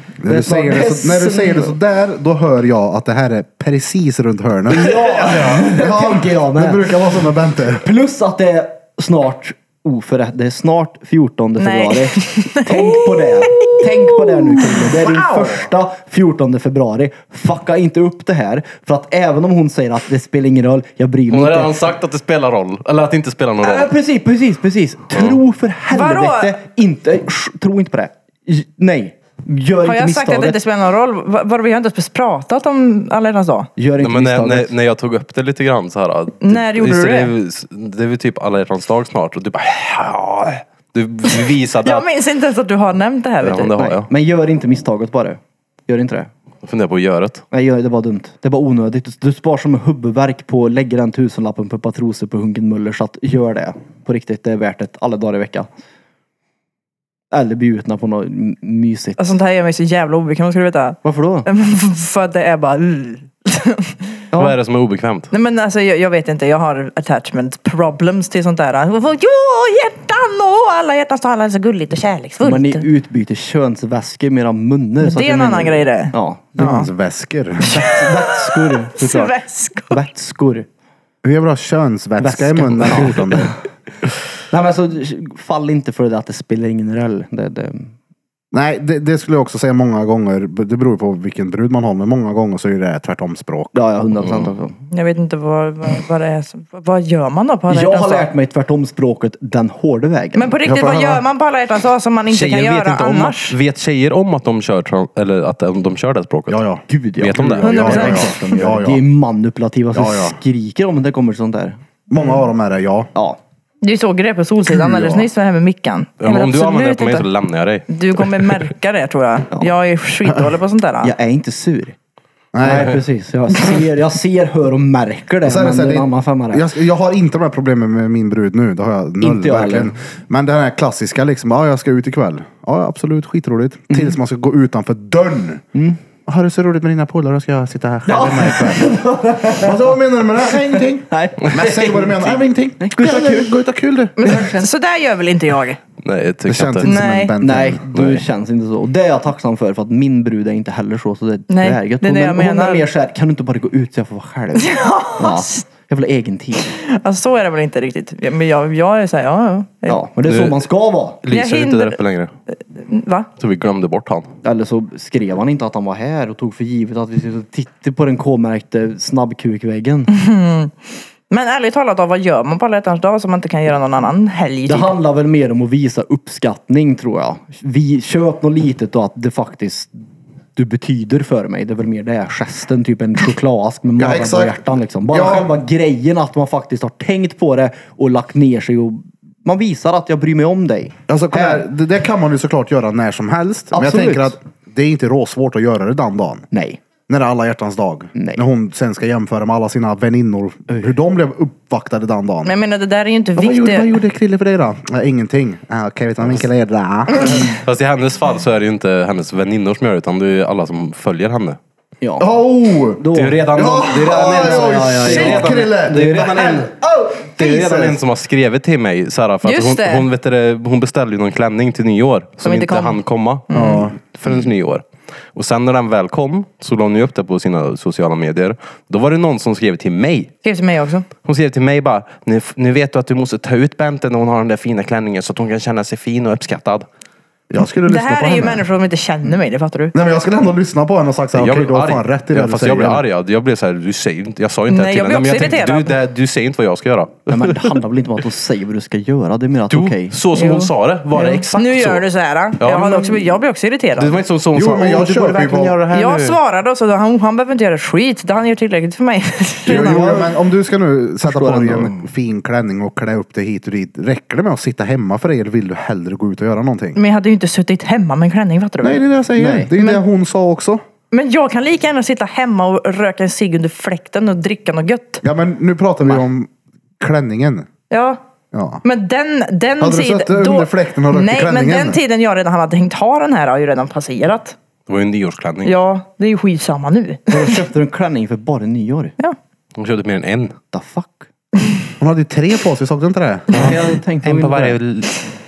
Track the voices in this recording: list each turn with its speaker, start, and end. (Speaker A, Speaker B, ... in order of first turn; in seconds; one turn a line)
Speaker A: 0.2-7.9
Speaker B: 0.2-1.8
Speaker B: 4.7-7.0
Speaker C: 5.0-5.7
Speaker B: 7.7-21.9
Speaker D: 11.6-15.7
Speaker C: 21.3-23.9
Speaker B: 23.6-30.6
Speaker C: 25.1-25.4
Speaker D: 25.9-26.6
Speaker D: 29.8-33.7
Speaker B: 33.8-34.7
Speaker C: 34.0-42.1
Speaker D: 36.4-37.3
Speaker D: 41.3-43.8
Speaker C: 43.4-44.1
Speaker B: 43.8-46.3
Speaker C: 46.6-47.4
Speaker B: 47.5-55.7
Speaker B: 57.3-59.2
Speaker D: 59.2-64.1
Speaker B: 61.0-61.5
Speaker B: 64.3-64.6
Speaker C: 64.4-65.3
Speaker D: 65.3-72.9
Speaker B: 72.4-76.9
Speaker D: 75.0-76.9
Speaker A: 76.6-77.8
Speaker B: 77.6-79.4
Speaker D: 77.7-80.0
Speaker B: 79.9-80.7
Speaker A: 81.2-83.6
Speaker B: 82.2-83.6
Speaker B: 84.5-87.9
Speaker A: 88.5-93.8
Speaker B: 93.7-94.8
Speaker D: 94.9-98.3
Speaker B: 97.7-100.5
Speaker D: 100.3-103.6
Speaker A: 100.7-101.2
Speaker C: 102.3-106.6
Speaker A: 106.5-106.8
Speaker B: 106.9-111.8
Speaker C: 107.2-108.2
Speaker A: 107.4-109.0
Speaker D: 107.6-108.3
Speaker A: 109.9-110.4
Speaker A: 112.1-113.1
Speaker D: 113.8-117.3
Speaker A: 114.7-115.3
Speaker C: 116.2-118.7
Speaker D: 117.9-121.1
Speaker B: 121.0-122.0
Speaker A: 122.5-123.0
Speaker B: 122.6-126.7
Speaker A: 125.5-135.6
Speaker B: 129.2-129.9
Speaker B: 135.7-136.0
Speaker A: 136.3-139.0
Speaker B: 138.1-139.9
Speaker A: 139.5-144.5
Speaker B: 140.5-143.5
Speaker D: 144.2-145.8
Speaker C: 146.0-146.9
Speaker A: 146.5-147.8
Speaker D: 146.8-147.3
Speaker B: 147.4-156.8
Speaker C: 147.9-148.2
Speaker D: 151.5-152.9
Speaker D: 154.6-155.7
Speaker D: 156.7-160.0
Speaker B: 159.9-161.2
Speaker C: 160.2-160.7
Speaker C: 161.2-162.3
Speaker D: 161.3-162.0
Speaker D: 162.6-163.3
Speaker C: 163.4-164.3
Speaker B: 164.4-170.1
Speaker D: 170.1-170.8
Speaker D: 171.3-174.9
Speaker B: 174.7-179.9
Speaker B: 180.6-191.6
Speaker A: 184.0-185.5
Speaker A: 191.1-196.5
Speaker B: 193.7-194.4
Speaker B: 196.5-196.8
Speaker A: 197.1-202.5
Speaker B: 198.2-198.4
Speaker D: 202.4-203.9
Speaker A: 203.4-207.5
Speaker C: 207.6-211.6
Speaker B: 212.0-212.3
Speaker A: 212.2-218.0
Speaker B: 213.0-216.6
Speaker C: 213.1-216.7
Speaker C: 217.4-230.3
Speaker D: 219.4-220.1
Speaker D: 222.4-223.0
Speaker D: 223.5-223.8
Speaker A: 223.5-224.0
Speaker D: 230.4-231.1
Speaker C: 231.2-236.9
Speaker A: 237.5-238.6
Speaker D: 237.9-239.9
Speaker A: 239.9-243.0
Speaker C: 241.3-247.8
Speaker D: 244.7-246.0
Speaker B: 247.3-250.2
Speaker C: 249.7-252.1
Speaker D: 250.3-254.2
Speaker C: 252.6-253.4
Speaker C: 254.0-256.4
Speaker A: 254.5-255.8
Speaker D: 255.9-260.3
Speaker A: 259.7-267.0
Speaker B: 259.7-260.3
Speaker B: 261.2-262.0
Speaker D: 267.0-269.0
Speaker A: 268.8-270.8
Speaker B: 269.4-269.7
Speaker D: 269.8-270.0
Speaker D: 271.1-275.2
Speaker A: 275.2-277.7
Speaker D: 277.9-278.2
Speaker A: 278.5-278.8
Speaker D: 278.8-284.6
Speaker A: 279.8-282.0
Speaker C: 284.9-285.8
Speaker D: 285.6-287.6
Speaker B: 287.3-289.1
Speaker C: 289.8-290.6
Speaker B: 290.7-291.3
Speaker A: 292.0-293.7
Speaker B: 293.5-294.8
Speaker C: 293.5-295.3